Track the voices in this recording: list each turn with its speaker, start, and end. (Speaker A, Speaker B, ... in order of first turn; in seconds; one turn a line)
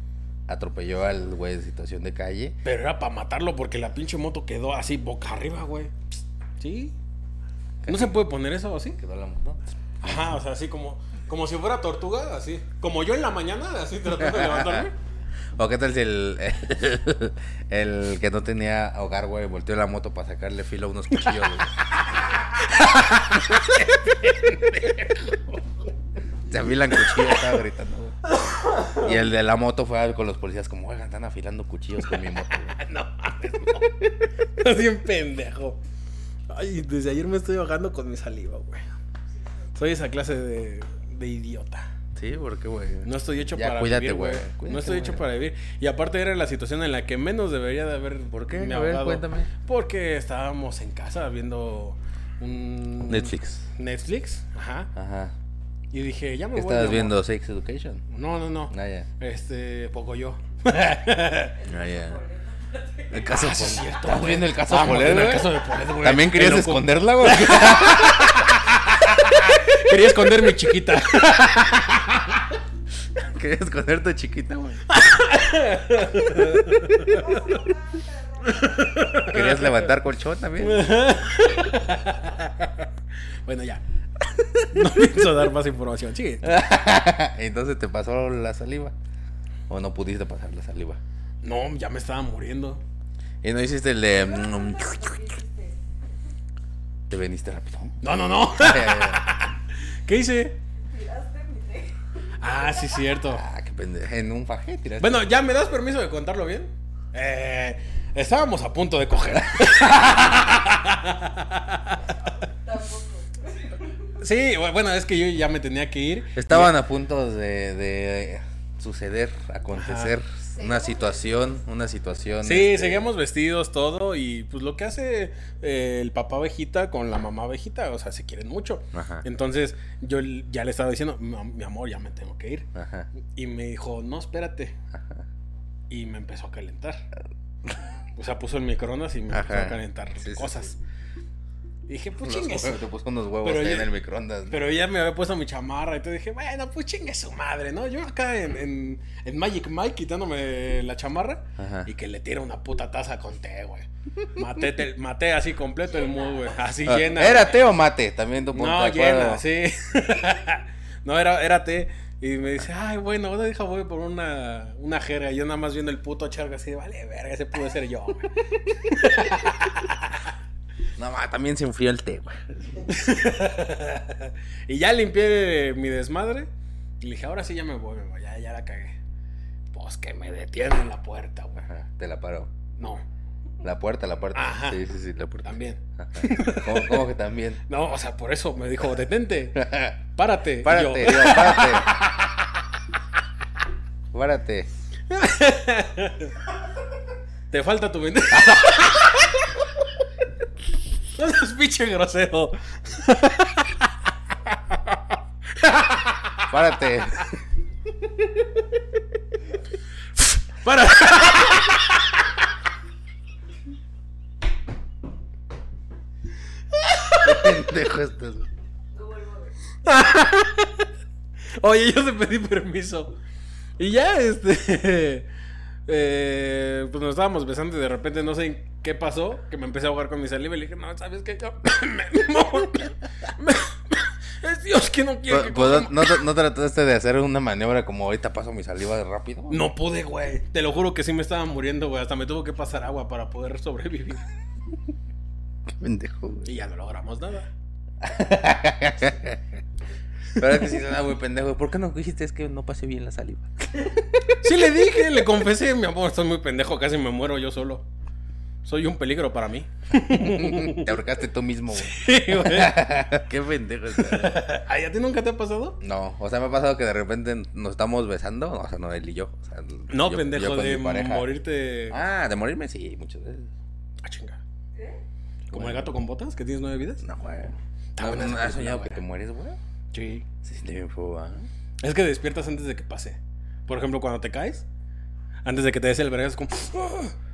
Speaker A: 0.5-2.6
Speaker B: 2.6-5.9
Speaker B: 6.6-6.9
Speaker A: 7.8-8.1
Speaker B: 7.9-9.0
Speaker A: 9.0-10.3
Speaker B: 10.0-14.9
Speaker A: 14.2-14.9
Speaker A: 15.6-21.7
Speaker A: 23.0-24.7
Speaker A: 26.5-28.2
Speaker B: 27.1-27.4
Speaker B: 28.4-29.1
Speaker A: 28.9-32.8
Speaker B: 32.8-35.8
Speaker B: 36.5-38.9
Speaker B: 39.8-41.9
Speaker A: 42.1-45.2
Speaker B: 43.0-54.9
Speaker A: 48.3-49.5
Speaker A: 53.0-53.7
Speaker A: 55.0-55.3
Speaker B: 55.9-57.2
Speaker A: 56.5-58.0
Speaker B: 58.1-61.5
Speaker A: 58.7-59.1
Speaker C: 61.5-63.7
Speaker A: 61.7-62.2
Speaker A: 63.1-69.5
Speaker B: 63.3-72.4
Speaker A: 73.2-74.8
Speaker B: 74.9-77.3
Speaker C: 77.0-79.2
Speaker B: 78.5-79.8
Speaker A: 79.2-80.9
Speaker B: 80.6-82.9
Speaker B: 83.5-83.8
Speaker B: 84.7-86.5
Speaker A: 86.4-88.9
Speaker A: 89.7-91.0
Speaker B: 91.4-92.8
Speaker A: 93.4-95.2
Speaker C: 94.1-95.8
Speaker A: 97.1-99.3
Speaker B: 98.0-100.6
Speaker C: 100.8-103.1
Speaker B: 102.4-103.5
Speaker A: 103.2-105.3
Speaker B: 105.0-112.0
Speaker A: 109.4-110.0
Speaker C: 112.4-114.1
Speaker B: 114.2-116.7
Speaker A: 116.3-123.1
Speaker B: 119.7-120.2
Speaker C: 120.5-121.5
Speaker B: 122.4-132.7
Speaker A: 128.9-129.3
Speaker A: 132.8-133.1
Speaker B: 133.3-134.8
Speaker A: 134.9-135.3
Speaker B: 135.9-137.1
Speaker B: 138.2-140.8
Speaker A: 139.3-140.7
Speaker B: 141.9-142.8
Speaker A: 142.2-144.6
Speaker B: 143.4-143.9
Speaker B: 144.5-157.6
Speaker A: 151.6-151.9
Speaker C: 155.9-157.6
Speaker A: 156.8-159.4
Speaker B: 158.5-170.3
Speaker A: 171.0-172.9
Speaker B: 172.9-176.5
Speaker B: 177.0-178.9
Speaker B: 179.7-181.6
Speaker A: 181.6-182.5
Speaker B: 182.8-183.0
Speaker A: 183.6-187.6
Speaker B: 184.3-184.8
Speaker B: 185.4-187.1
Speaker B: 187.7-192.4
Speaker A: 189.6-190.0
Speaker A: 190.6-192.0
Speaker A: 194.1-194.7
Speaker B: 195.1-196.4
Speaker B: 197.5-199.5
Speaker B: 201.2-203.9
Speaker B: 204.5-205.0
Speaker B: 205.6-206.4
Speaker A: 206.5-207.4
Speaker B: 210.6-212.1
Speaker B: 216.7-217.6
Speaker A: 217.2-218.5
Speaker C: 218.9-219.5
Speaker B: 219.8-220.9
Speaker B: 221.6-223.2
Speaker B: 223.8-225.3
Speaker B: 225.9-236.1
Speaker A: 235.3-239.6
Speaker B: 239.5-244.2
Speaker A: 245.7-246.5
Speaker B: 246.4-247.5
Speaker A: 248.0-249.4
Speaker A: 250.4-254.0
Speaker B: 254.4-257.9
Speaker B: 258.6-260.9
Speaker A: 260.0-264.5
Speaker B: 261.8-262.9
Speaker B: 264.0-265.8
Speaker A: 265.8-271.3
Speaker B: 269.9-272.0
Speaker A: 271.9-273.5
Speaker B: 274.0-274.4
Speaker C: 274.7-275.0
Speaker A: 275.5-275.9
Speaker B: 275.5-277.0
Speaker A: 277.0-279.6
Speaker B: 278.0-279.0
Speaker B: 279.9-280.2
Speaker A: 280.4-281.5
Speaker B: 281.8-284.7
Speaker B: 285.4-287.1